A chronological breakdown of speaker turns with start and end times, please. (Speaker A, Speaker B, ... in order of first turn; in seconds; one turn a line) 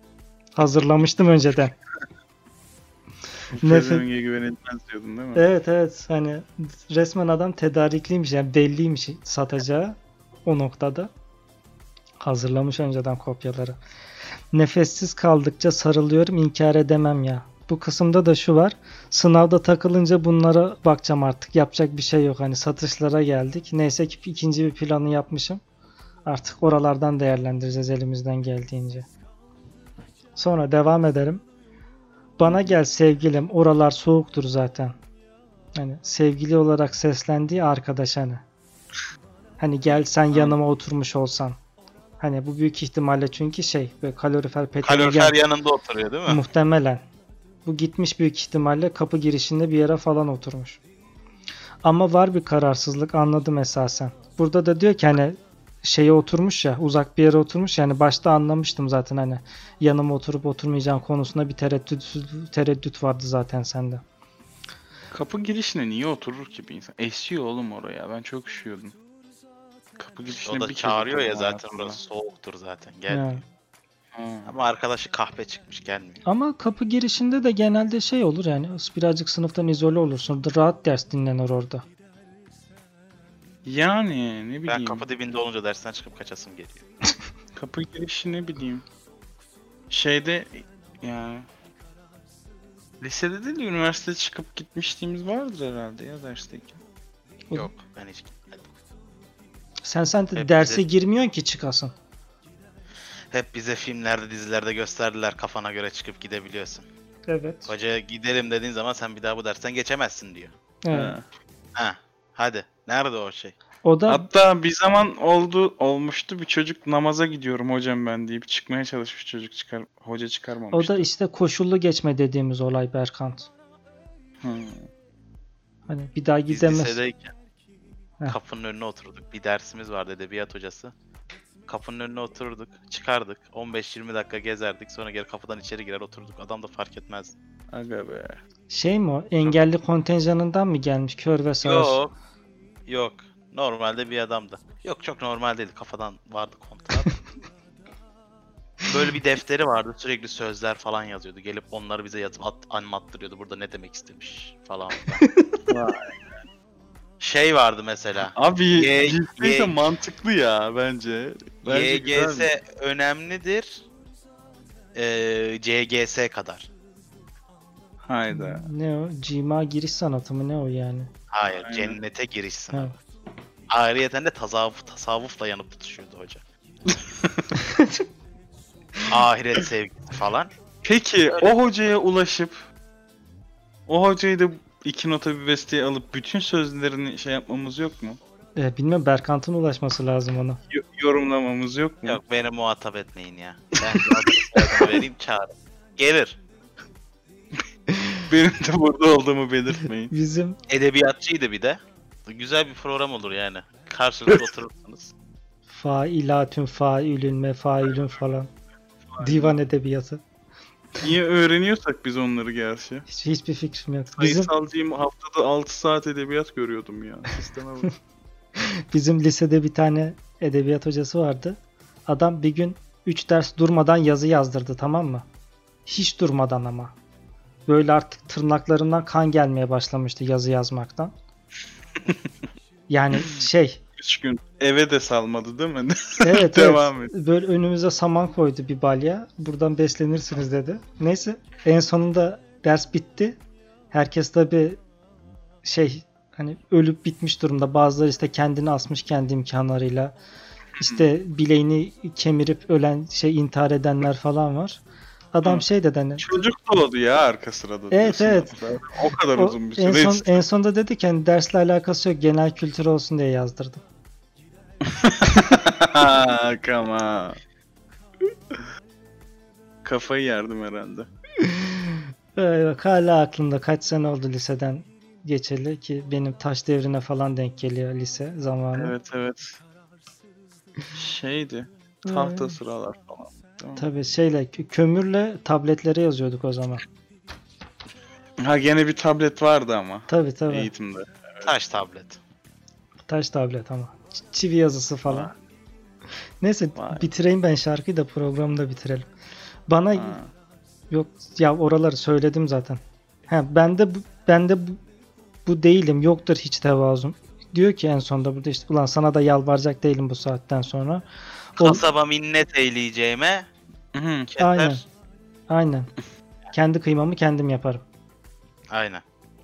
Speaker A: 0.5-1.7
Speaker B: 3.5-5.5
Speaker A: 3.6-4.0
Speaker A: 5.3-11.1
Speaker A: 12.2-13.8
Speaker A: 14.5-25.6
Speaker A: 26.2-29.1
Speaker A: 30.4-31.4
Speaker A: 32.4-35.0
Speaker A: 35.7-38.4
Speaker A: 39.6-41.6
Speaker A: 42.2-45.4
Speaker C: 44.8-46.4
Speaker A: 46.3-47.0
Speaker A: 47.6-50.8
Speaker A: 51.8-64.0
Speaker B: 65.1-69.0
Speaker B: 70.0-72.0
Speaker C: 70.4-73.4
Speaker A: 73.1-73.4
Speaker B: 74.1-74.5
Speaker C: 74.4-76.2
Speaker A: 76.2-81.8
Speaker B: 83.6-85.1
Speaker C: 84.7-86.8
Speaker B: 87.5-88.8
Speaker B: 89.9-91.5
Speaker B: 93.0-96.8
Speaker C: 97.5-98.7
Speaker A: 99.8-101.9
Speaker C: 100.3-100.8
Speaker C: 103.3-106.9
Speaker A: 107.3-107.7
Speaker C: 107.7-110.5
Speaker A: 110.8-111.1
Speaker B: 110.9-111.2
Speaker C: 111.8-113.5
Speaker A: 113.8-114.2
Speaker B: 114.1-121.1
Speaker A: 120.7-123.5
Speaker B: 124.4-124.9
Speaker A: 125.9-127.0
Speaker C: 126.5-127.3
Speaker C: 128.3-130.9
Speaker C: 131.7-137.3
Speaker B: 137.7-138.4
Speaker A: 138.7-142.0
Speaker C: 141.6-142.1
Speaker C: 142.9-147.1
Speaker C: 148.9-155.3
Speaker B: 155.7-156.3
Speaker C: 157.2-159.8
Speaker B: 158.2-162.5
Speaker C: 161.6-163.8
Speaker C: 164.9-166.7
Speaker B: 168.0-168.7
Speaker A: 168.3-171.1
Speaker C: 171.3-172.9
Speaker B: 171.5-172.0
Speaker C: 173.7-176.4
Speaker B: 176.9-177.5
Speaker A: 177.6-178.0
Speaker C: 179.1-180.5
Speaker B: 180.8-182.6
Speaker B: 183.9-188.2
Speaker A: 188.6-190.6
Speaker B: 190.7-192.2
Speaker C: 192.0-196.4
Speaker B: 193.8-195.0
Speaker B: 198.2-200.1
Speaker A: 200.1-200.6
Speaker C: 200.7-205.1
Speaker A: 205.7-208.5
Speaker B: 209.1-209.5
Speaker A: 209.2-210.2
Speaker B: 211.0-213.1
Speaker A: 213.1-214.5
Speaker B: 214.2-217.9
Speaker A: 218.6-225.2
Speaker A: 225.8-226.9
Speaker A: 227.7-231.1
Speaker A: 232.9-233.8
Speaker B: 234.0-237.1
Speaker A: 236.2-243.4
Speaker A: 243.9-244.8
Speaker A: 245.6-250.2
Speaker B: 250.8-251.1
Speaker A: 250.8-254.8
Speaker A: 255.3-256.2
Speaker B: 256.2-260.4
Speaker A: 257.9-258.6
Speaker A: 259.4-263.8
Speaker B: 264.8-267.4
Speaker B: 269.8-271.1
Speaker A: 271.4-278.9
Speaker B: 278.8-279.6
Speaker B: 280.9-283.9
Speaker A: 282.1-282.6
Speaker A: 283.8-286.8
Speaker B: 288.4-291.5
Speaker A: 290.1-290.7
Speaker C: 291.4-292.2
Speaker A: 293.1-295.3
Speaker B: 295.1-295.3
Speaker A: 296.4-299.1
Speaker B: 296.7-297.1
Speaker A: 299.7-300.2
Speaker B: 299.9-300.3
Speaker A: 300.9-304.8
Speaker A: 305.4-311.0
Speaker C: 311.6-313.5
Speaker B: 313.9-314.4
Speaker C: 314.3-314.8
Speaker A: 314.4-314.8
Speaker A: 315.5-315.9
Speaker A: 316.5-317.8
Speaker C: 318.7-319.0